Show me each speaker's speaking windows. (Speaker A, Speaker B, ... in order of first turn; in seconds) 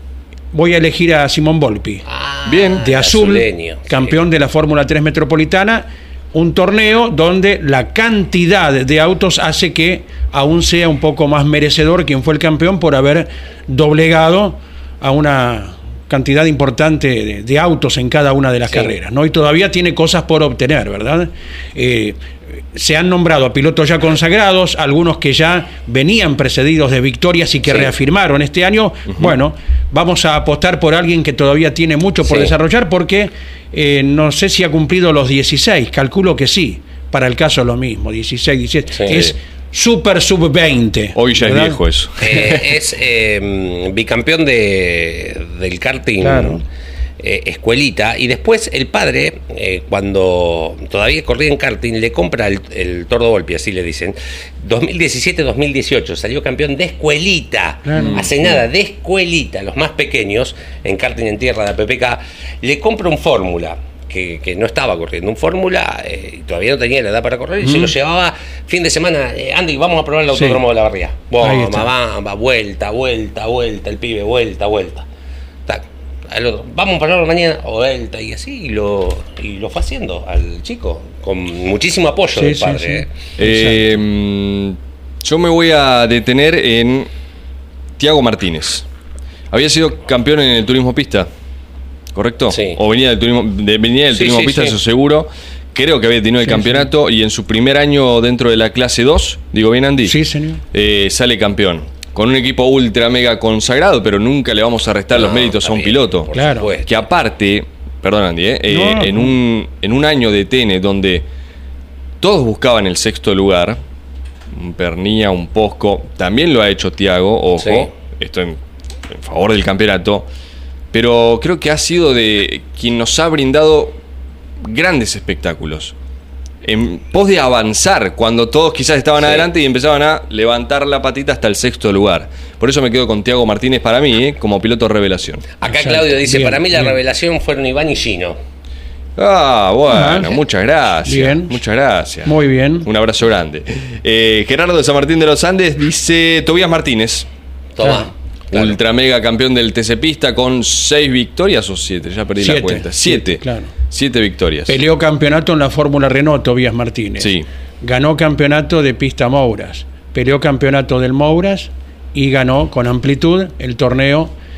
Speaker A: 0.5-2.0, 2.8-22.2, 22.7-41.8, 46.2-46.6, 57.9-58.3, 67.6-67.9, 70.3-70.6, 71.4-71.9, 82.3-84.0, 96.4-96.9, 100.0-100.6, 106.3-106.7, 108.7-109.3, 135.6-136.9, 139.9-140.3, 141.0-141.6, 142.2-142.9, 147.8-148.1, 152.4-153.7, 154.7-157.3, 157.8-164.3
Speaker B: 2.0-4.2, 27.6-27.9, 32.2-32.5, 42.2-46.6, 47.2-75.0, 75.7-83.1, 92.5-92.8, 94.1-94.8, 105.1-107.0, 117.6-117.9, 129.2-129.5, 135.6-138.3, 147.8-148.8
Speaker C: 2.5-2.8, 29.1-29.3, 39.1-39.3, 41.1-42.7, 83.4-87.1, 88.0-88.8, 89.5-91.3, 92.1-100.2, 100.7-106.3, 106.8-111.2, 112.2-113.8, 114.5-120.3, 120.9-124.0, 124.6-125.9, 126.6-135.4, 139.2-147.3, 148.5-154.8, 157.2-157.4